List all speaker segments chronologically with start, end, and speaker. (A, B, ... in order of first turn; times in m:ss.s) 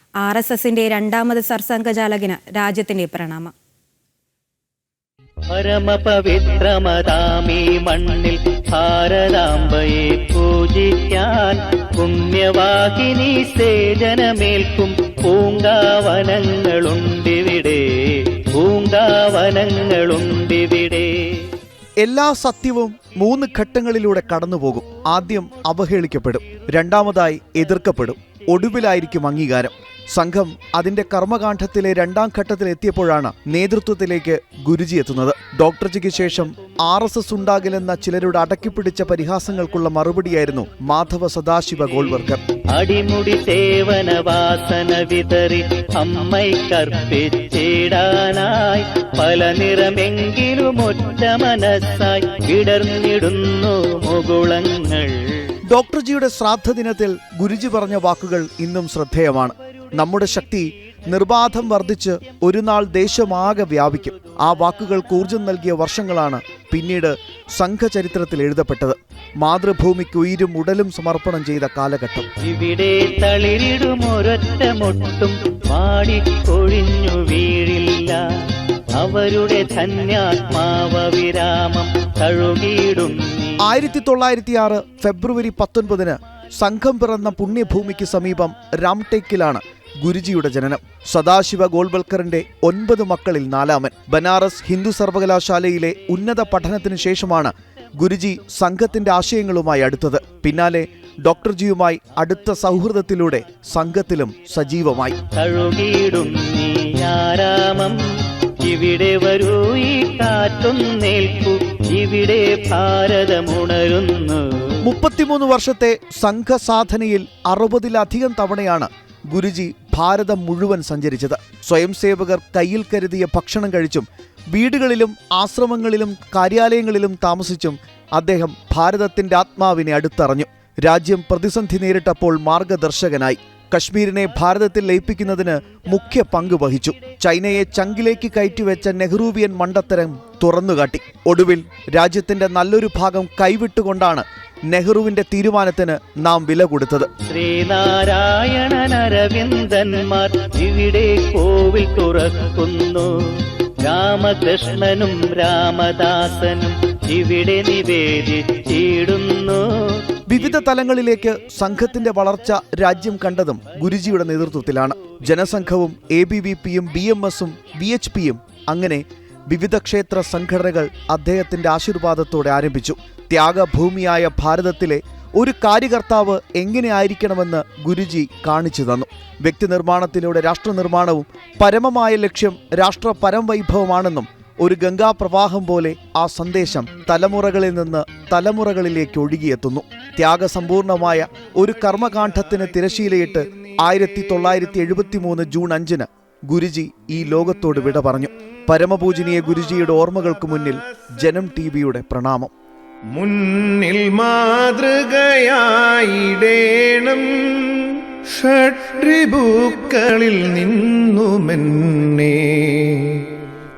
0:00.2-0:03.5 A
0:05.5-0:21.5 B
0:22.0-0:42.4 C
0:42.7-0:55.5 B
0:55.7-1:12.3 C
1:12.4-1:18.2 B
1:19.0-1:23.6 B
1:23.6-1:45.2 C
1:45.4-1:48.0 B
1:48.6-1:54.7 B
1:54.8-2:27.1 C
2:27.3-2:40.0 B
2:40.3-3:22.5 C
3:23.1-3:33.4 D